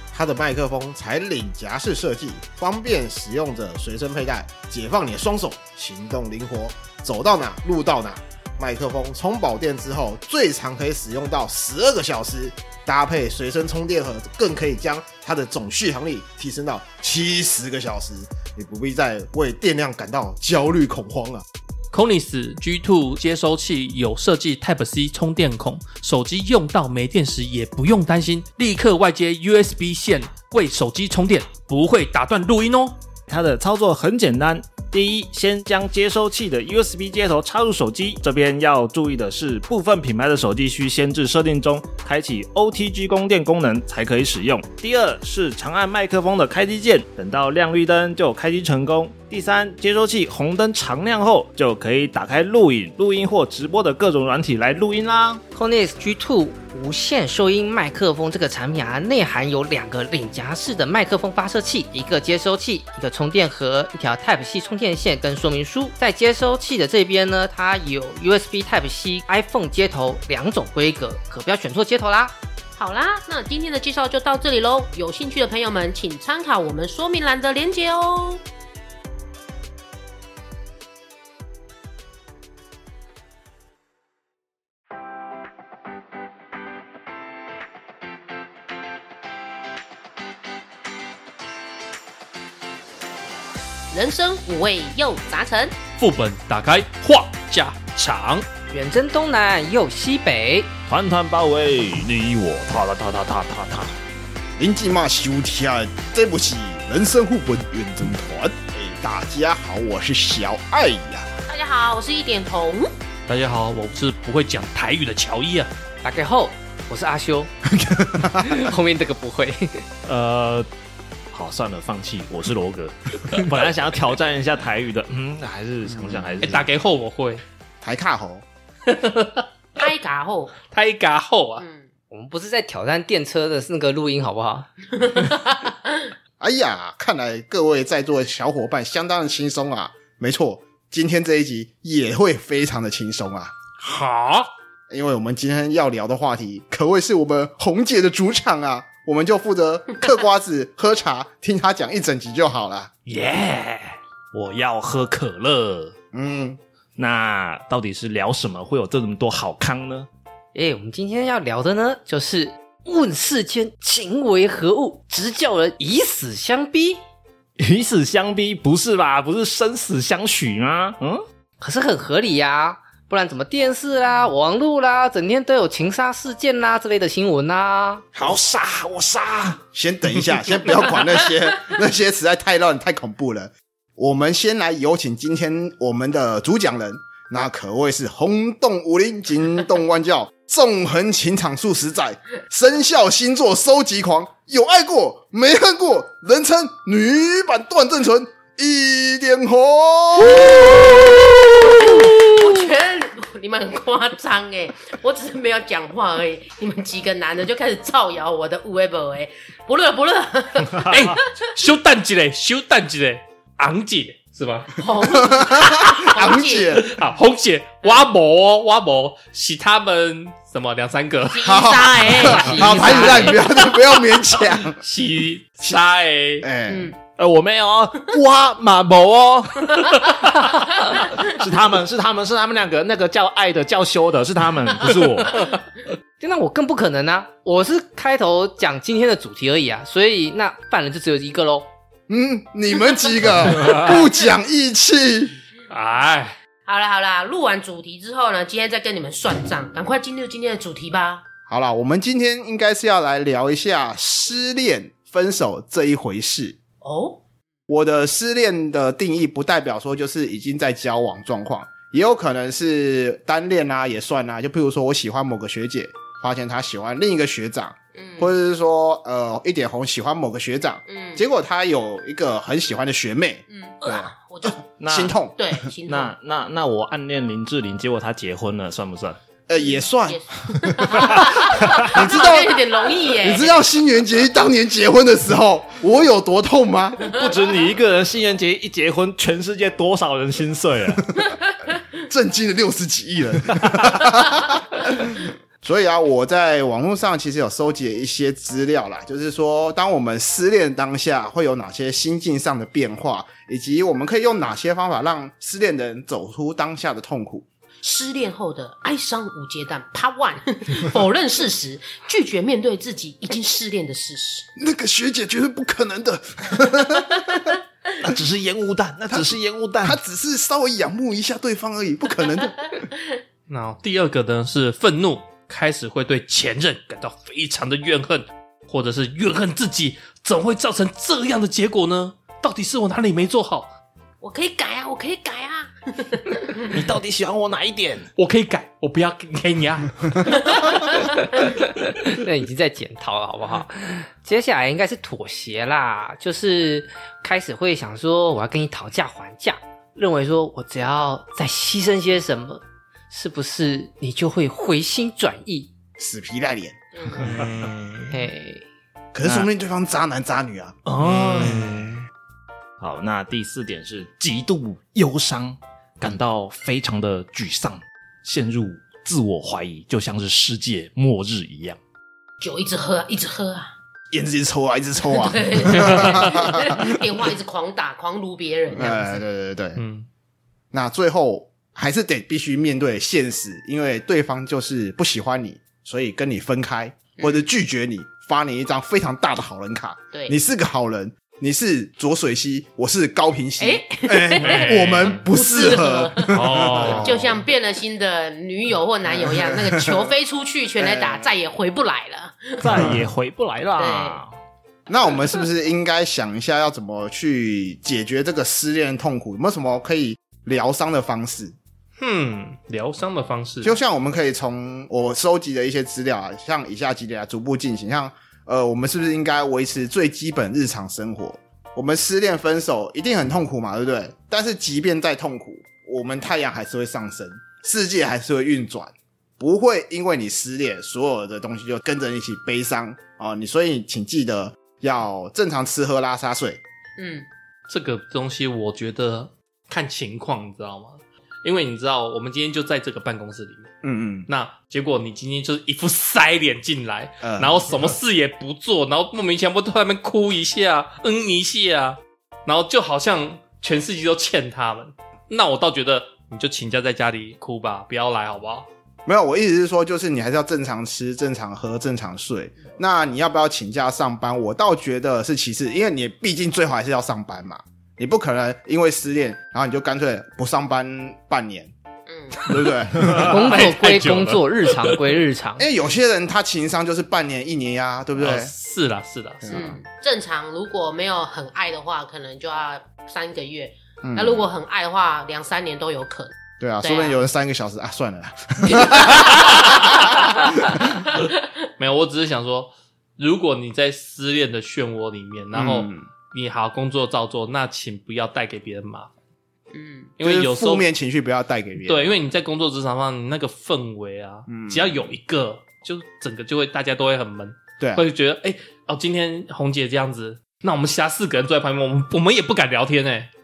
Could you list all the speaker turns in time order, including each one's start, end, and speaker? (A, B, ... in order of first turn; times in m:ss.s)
0:00.1-0:21.4 A
0:21.9-0:33.0 B
0:33.3-0:55.4 C
0:55.5-1:12.3 D
1:12.8-1:18.4 E
1:33.9-1:35.7 E
1:36.0-1:38.4 B
1:38.7-1:40.7 D
1:40.9-1:44.0 C
1:44.6-1:51.3 A
1:51.5-1:52.9 E
1:53.3-1:55.7 B
1:56.0-1:57.5 D
1:57.6-1:58.7 A
1:58.3-1:59.8 D
2:00.0-2:00.7 C
2:01.3-2:06.7 C
2:05.9-2:06.6 A
2:06.4-2:07.4 B
2:07.8-2:08.4 A
2:08.9-2:09.4 B
2:09.8-2:10.5 E
2:10.7-2:11.6 B
2:11.6-2:11.9 E
2:12.1-2:14.7 D
2:15.0-2:15.9 E
2:16.4-2:23.5 A
2:23.9-2:24.3 B
2:24.0-2:24.4 C
2:24.9-2:32.9 A
2:33.1-2:36.0 C
2:36.1-2:36.6 A
2:37.0-2:40.1 C
2:40.5-2:47.0 D
2:47.6-2:51.2 C
2:51.6-2:58.0 D
2:58.2-2:59.6 C
2:59.7-3:22.2 A
3:20.3-3:31.1 E
3:30.8-3:34.8 B
3:34.8-3:36.9 E
3:35.0-3:36.9 A
3:36.8-3:41.6 B
3:41.3-3:43.9 E
3:41.4-3:44.8 A
3:42.1-3:43.4 D
3:44.8-3:46.5 B
3:46.4-3:46.9 A
3:46.7-3:47.0 E
3:47.1-3:55.4 C
3:56.2-4:01.7 D
4:02.1-4:05.4 A
4:05.7-4:06.4 B
4:06.7-4:11.2 E
4:11.5-4:16.6 A
4:16.8-4:17.2 E
4:17.7-4:35.6 A
4:28.0-4:28.3 E
4:30.9-4:31.2 E
4:33.5-4:34.7 E
4:34.8-4:35.2 C
4:35.4-4:36.2 E
4:35.9-4:39.2 C
4:39.5-4:47.2 A
4:39.6-4:43.6 E
4:41.2-4:41.9 C
4:47.1-4:51.1 C
4:52.0-5:07.5 A
5:07.8-5:14.5 E
5:14.6-5:17.5 A
5:18.0-5:20.0 C
5:19.8-5:22.9 A
5:23.5-5:33.7 B
5:34.2-5:36.7 E
5:36.7-5:38.1 C
5:38.2-5:40.9 B
5:42.1-5:55.7 D
5:56.0-5:57.5 A
5:57.0-5:57.4 E
5:57.3-5:58.1 C
5:58.1-5:58.6 D
5:59.1-6:00.8 A
6:00.9-6:01.9 C
6:01.4-6:02.0 A
6:02.8-6:11.8 C
6:12.4-6:13.7 E
6:14.1-6:17.0 A
6:15.1-6:19.2 E
6:15.8-6:16.2 B
6:18.7-6:19.8 A
6:19.8-6:20.1 B
6:20.7-6:37.4 A
6:27.2-6:27.4 E
6:33.6-6:43.0 E
6:34.4-6:35.2 B
6:36.3-6:37.2 B
6:39.1-6:40.1 A
6:40.8-6:41.3 A
6:42.6-6:44.4 C
6:42.7-6:43.1 A
6:43.8-6:44.2 E
6:44.9-6:51.6 A
6:52.0-6:53.8 B
6:53.6-7:16.6 A
7:17.0-7:17.3 E
7:17.7-7:23.7 B
7:23.8-7:24.3 A
7:24.3-7:38.7 B
7:27.2-7:27.9 A
7:39.1-7:51.7 A
7:52.1-7:52.5 E
7:52.5-7:53.3 A
7:52.7-7:54.4 C
7:53.2-7:55.7 D
7:53.4-7:54.3 B
7:55.6-7:58.5 A
7:58.2-7:59.6 B
7:59.4-7:59.8 A
7:59.5-8:07.2 E
8:04.0-8:04.5 A
8:06.6-8:10.9 A
8:08.8-8:10.5 E
8:11.8-8:19.1 B
8:15.5-8:16.0 A
8:19.7-8:20.1 E
8:20.2-8:20.8 B
8:20.2-8:22.2 A
8:21.8-8:33.3 B
8:24.5-8:24.9 A
8:27.8-8:28.1 A